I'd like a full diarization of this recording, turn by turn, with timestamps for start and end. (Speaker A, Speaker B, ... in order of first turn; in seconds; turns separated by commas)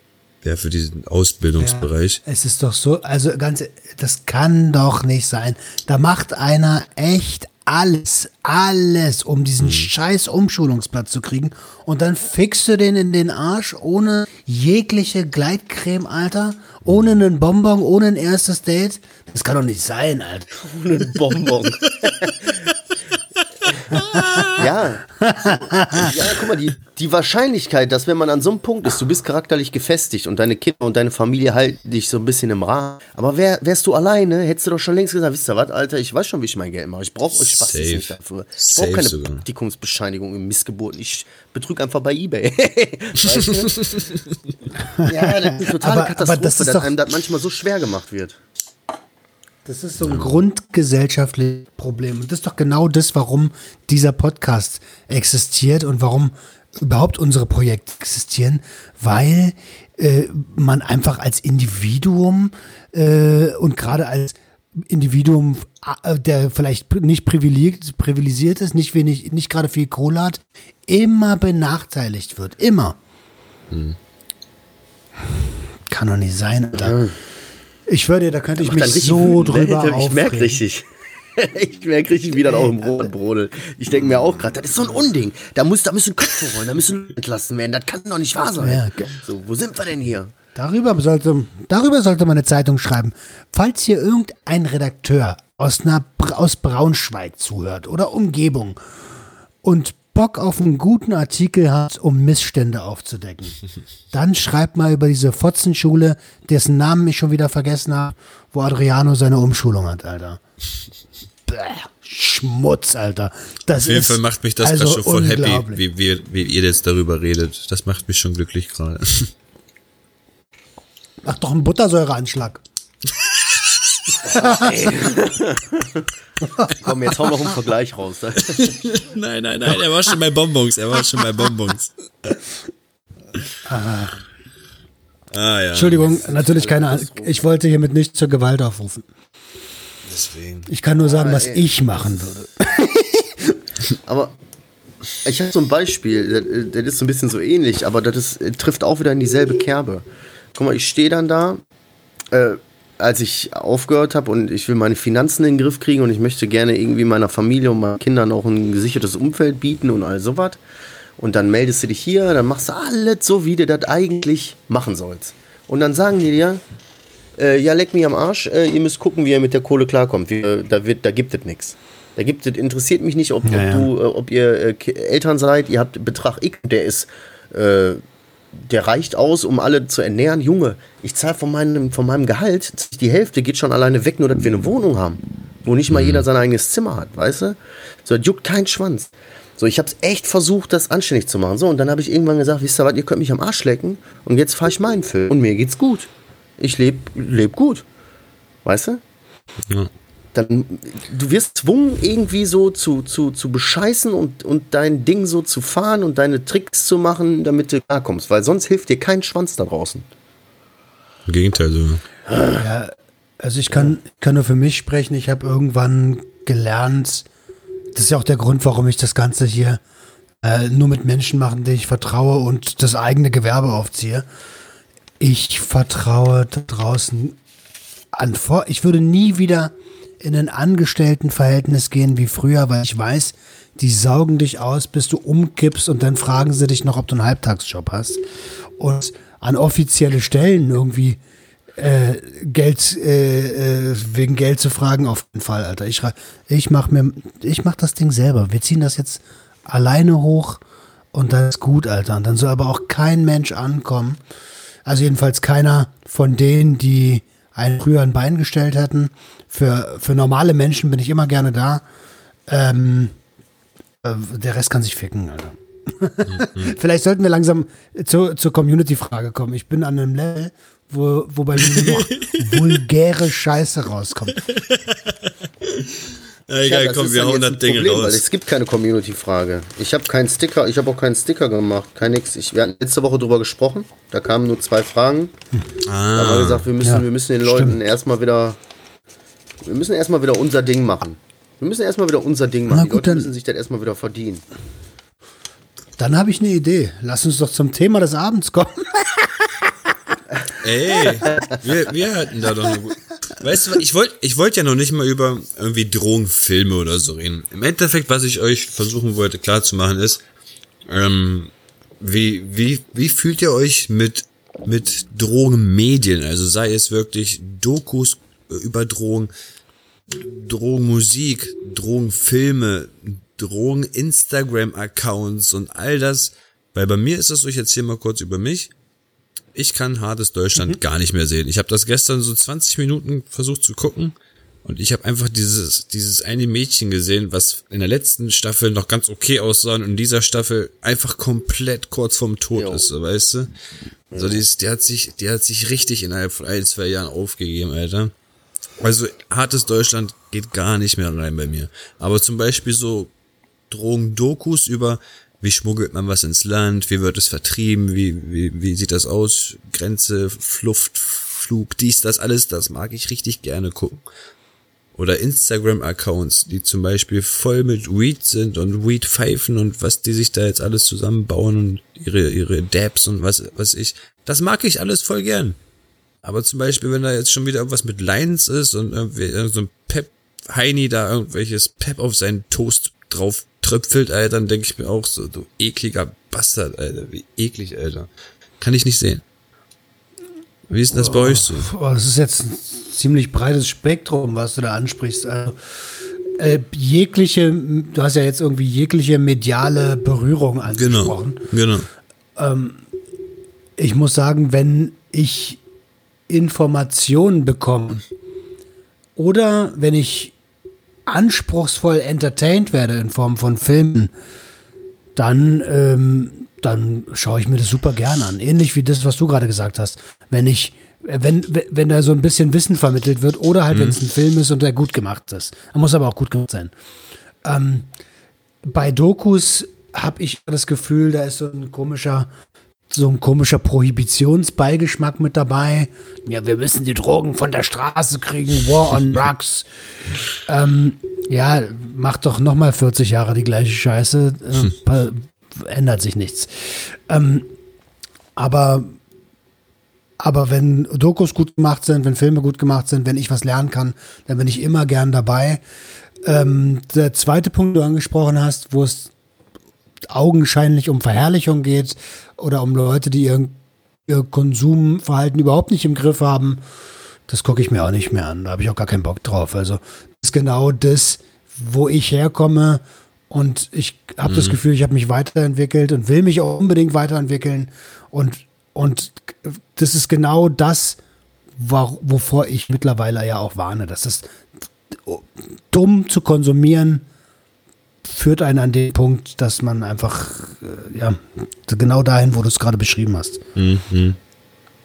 Speaker A: 0.4-2.2, Speaker B: 1.6-20.6, Speaker A: 9.6-9.9, Speaker C: 20.7-22.6, Speaker B: 23.9-24.6, Speaker A: 24.1-24.6, Speaker C: 24.6-43.9, Speaker B: 25.2-26.1, Speaker A: 37.3-39.4, Speaker A: 43.3-44.2, Speaker B: 44.9-46.9, Speaker C: 45.1-48.4, Speaker B: 49.6-73.0, Speaker A: 50.0-50.4, Speaker A: 73.7-74.0, Speaker B: 75.9-77.0, Speaker C: 76.8-77.2, Speaker B: 77.9-80.6, Speaker C: 78.6-80.8, Speaker C: 81.4-90.3, Speaker B: 82.5-83.1, Speaker B: 88.4-89.2, Speaker B: 90.5-98.8, Speaker B: 99.6-103.6, Speaker B: 104.1-110.4, Speaker B: 111.5-115.8, Speaker A: 113.8-119.3, Speaker B: 121.2-122.6, Speaker C: 124.2-126.1, Speaker B: 124.3-124.7, Speaker B: 126.6-126.8, Speaker C: 126.8-128.8, Speaker A: 128.5-132.4, Speaker B: 133.7-134.2, Speaker A: 135.3-136.1, Speaker B: 135.7-139.1, Speaker C: 136.0-137.4, Speaker A: 140.1-140.7, Speaker B: 140.7-143.6, Speaker C: 141.0-141.7, Speaker C: 144.1-144.4, Speaker C: 145.2-151.6, Speaker C: 152.3-160.6, Speaker C: 161.2-166.6, Speaker C: 167.4-178.0, Speaker B: 173.4-173.9, Speaker C: 178.5-197.8, Speaker A: 185.9-186.3, Speaker C: 198.7-199.0, Speaker C: 200.3-210.1, Speaker A: 211.3-212.0, Speaker B: 212.6-217.3, Speaker B: 217.9-219.8, Speaker B: 220.4-224.3, Speaker B: 225.2-227.4, Speaker B: 228.1-238.2, Speaker B: 238.8-241.2, Speaker B: 241.8-250.6, Speaker B: 251.1-254.2, Speaker B: 254.8-261.8, Speaker B: 262.5-263.1, Speaker B: 264.0-274.4, Speaker A: 266.3-266.7, Speaker A: 271.7-272.7, Speaker A: 274.4-278.2, Speaker C: 276.6-285.3, Speaker A: 285.8-286.7, Speaker C: 286.1-288.6, Speaker B: 286.8-287.8, Speaker C: 289.6-294.4, Speaker B: 292.7-293.3, Speaker B: 296.0-299.3, Speaker A: 300.6-310.2, Speaker C: 301.3-301.6, Speaker A: 310.9-319.3, Speaker A: 320.1-328.7, Speaker A: 329.5-343.5, Speaker C: 342.6-342.9, Speaker C: 344.1-344.4, Speaker A: 344.1-348.1, Speaker A: 348.8-353.1, Speaker A: 353.7-364.1, Speaker A: 364.9-375.6, Speaker A: 376.2-388.1, Speaker A: 388.6-389.2, Speaker A: 390.7-391.7, Speaker B: 390.9-395.6, Speaker B: 396.3-401.4, Speaker A: 400.7-401.9, Speaker B: 402.4-402.8, Speaker B: 403.8-405.6, Speaker B: 406.3-408.0, Speaker B: 409.2-410.4, Speaker B: 411.1-414.1, Speaker B: 415.1-426.7, Speaker A: 423.7-424.0, Speaker B: 427.4-427.9, Speaker B: 428.6-432.3, Speaker B: 432.9-439.7, Speaker B: 440.4-447.5, Speaker B: 448.4-449.0, Speaker B: 450.2-455.6, Speaker B: 456.2-459.1, Speaker B: 460.1-463.6, Speaker B: 464.1-466.6, Speaker B: 467.3-481.0, Speaker A: 474.3-474.6, Speaker B: 481.6-487.1, Speaker B: 488.1-493.4, Speaker A: 493.6-494.2